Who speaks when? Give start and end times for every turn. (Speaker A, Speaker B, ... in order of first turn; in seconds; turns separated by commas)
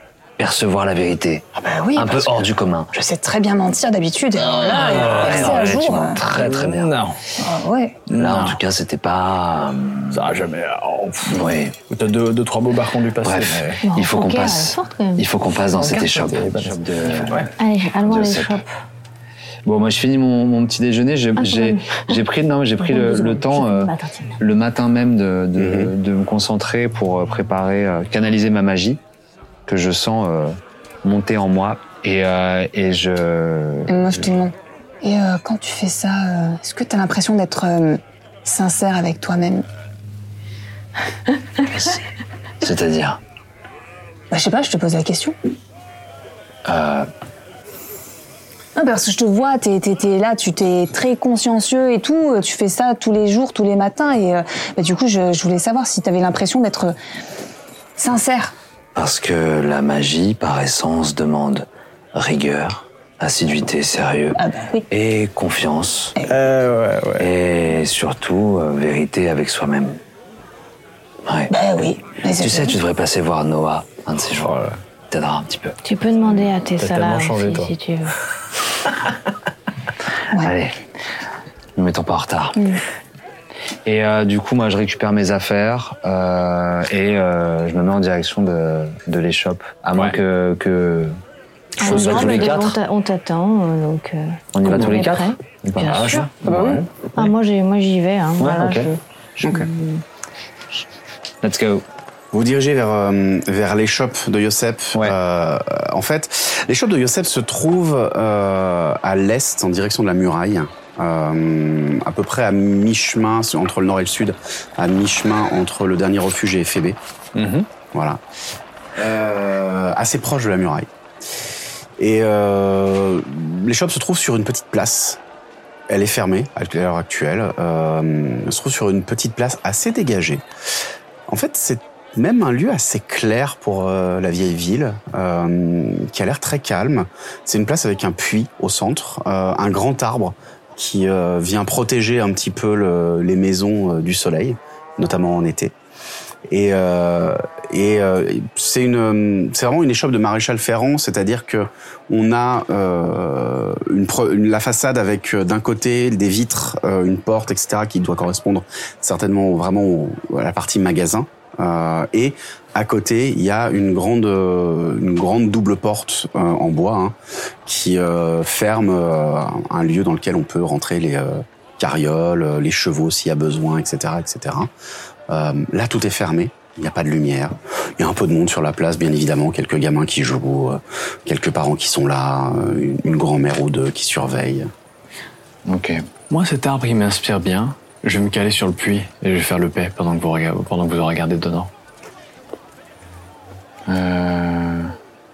Speaker A: 0.4-2.9, Speaker B: 1.6-6.2, Speaker C: 4.4-5.5, Speaker A: 4.6-6.9, Speaker C: 6.3-7.2, Speaker B: 7.4-8.0, Speaker A: 8.1-10.3, Speaker C: 8.1-8.6, Speaker C: 10.1-13.8, Speaker A: 11.3-11.8, Speaker A: 13.2-17.5, Speaker D: 13.8-15.2, Speaker C: 15.8-17.5, Speaker D: 17.6-18.7, Speaker A: 18.0-18.6, Speaker A: 19.6-29.0, Speaker D: 21.4-22.2, Speaker D: 22.8-24.4, Speaker E: 25.6-25.9, Speaker A: 29.7-34.1, Speaker B: 33.9-39.6, Speaker A: 41.6-42.0, Speaker A: 42.6-43.2, Speaker B: 44.3-45.3, Speaker A: 46.6-47.1, Speaker B: 48.8-56.9, Speaker B: 58.0-58.5, Speaker A: 58.9-66.2, Speaker B: 64.3-64.8, Speaker C: 66.3-67.3, Speaker A: 67.2-70.0, Speaker A: 71.2-71.5, Speaker B: 71.5-72.8, Speaker A: 72.3-74.6, Speaker C: 74.4-74.8, Speaker A: 75.1-75.8, Speaker D: 75.8-78.1, Speaker C: 76.8-77.7, Speaker A: 80.3-80.8, Speaker A: 81.8-82.8, Speaker A: 83.8-91.2, Speaker D: 91.8-96.3, Speaker A: 91.8-92.8, Speaker C: 91.8-92.6, Speaker A: 94.5-96.7, Speaker C: 96.4-97.2, Speaker D: 97.2-100.0, Speaker A: 98.4-98.9, Speaker A: 101.4-101.8, Speaker E: 102.3-117.0, Speaker C: 117.3-117.7, Speaker E: 117.9-118.2, Speaker E: 118.9-120.9, Speaker E: 122.0-125.2, Speaker E: 125.9-130.4, Speaker E: 131.3-145.7, Speaker E: 146.5-174.7, Speaker E: 175.3-184.7, Speaker A: 185.6-186.0, Speaker C: 186.3-191.7, Speaker A: 193.8-194.9